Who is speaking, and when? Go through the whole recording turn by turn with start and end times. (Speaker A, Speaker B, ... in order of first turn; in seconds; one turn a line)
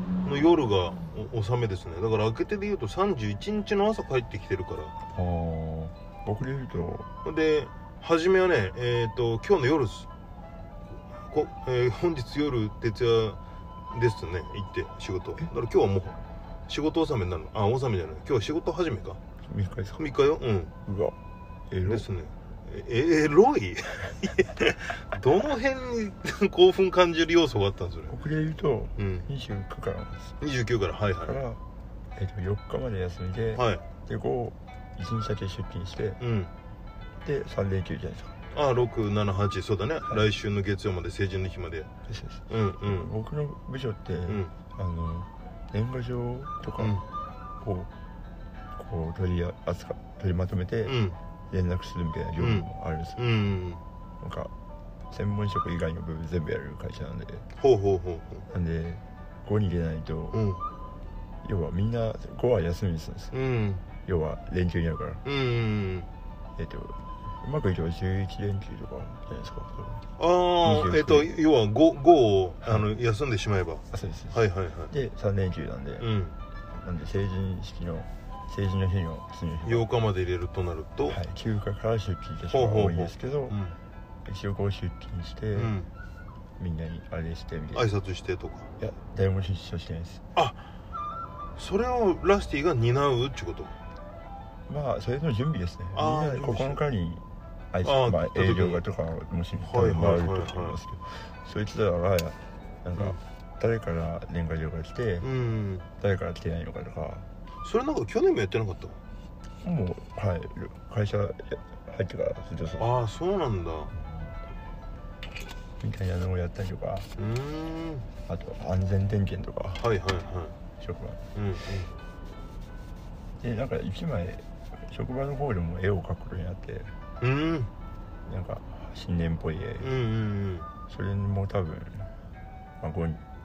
Speaker A: 0.2-5.0
Speaker B: 5.1-7.1
Speaker A: 7.2-10.1
Speaker A: 11.3-13.4
Speaker A: 13.9-19.2
Speaker B: 19.4-20.0
Speaker A: 20.0-20.7
Speaker B: 20.9-21.2
Speaker B: 21.7-22.1
Speaker A: 21.8-28.1
Speaker B: 28.1-30.4
Speaker A: 29.0-29.3
Speaker A: 30.4-31.4
Speaker B: 31.2-31.6
Speaker B: 32.1-36.2
Speaker A: 33.6-33.8
Speaker A: 36.2-36.5
Speaker B: 37.2-38.4
Speaker A: 38.5-41.9
Speaker B: 42.1-47.0
Speaker A: 42.5-43.1
Speaker A: 44.3-44.5
Speaker A: 46.8-47.0
Speaker B: 47.6-47.9
Speaker B: 48.8-51.0
Speaker A: 50.9-51.2
Speaker B: 51.5-53.2
Speaker A: 52.4-53.8
Speaker B: 54.2-54.5
Speaker B: 55.1-57.5
Speaker A: 57.6-58.4
Speaker B: 58.5-60.4
Speaker A: 60.3-60.6
Speaker B: 61.4-63.3
Speaker A: 63.3-63.8
Speaker B: 64.0-65.2
Speaker A: 65.2-66.1
Speaker B: 66.6-70.1
Speaker A: 70.2-74.9
Speaker B: 70.6-71.3
Speaker B: 73.9-76.1
Speaker A: 76.0-76.4
Speaker B: 76.7-79.9
Speaker A: 79.7-81.2
Speaker B: 81.1-83.6
Speaker A: 82.5-83.8
Speaker B: 84.2-85.7
Speaker A: 85.5-85.9
Speaker B: 86.6-87.9
Speaker A: 87.7-88.7
Speaker B: 88.8-90.2
Speaker A: 90.3-90.6
Speaker A: 91.6-93.7
Speaker B: 94.7-105.3
Speaker A: 95.9-96.8
Speaker A: 97.8-98.8
Speaker A: 99.6-100.8
Speaker A: 105.2-105.8
Speaker B: 106.0-107.3
Speaker A: 107.6-109.0
Speaker B: 109.6-112.9
Speaker A: 112.8-113.9
Speaker B: 113.9-114.4
Speaker B: 115.8-117.1
Speaker A: 117.2-118.1
Speaker B: 118.3-119.8
Speaker A: 119.8-120.5
Speaker B: 120.8-121.2
Speaker A: 121.3-121.9
Speaker B: 123.4-127.0
Speaker A: 127.2-127.7
Speaker B: 128.2-129.9
Speaker A: 129.8-130.7
Speaker B: 130.9-132.1
Speaker B: 132.8-133.2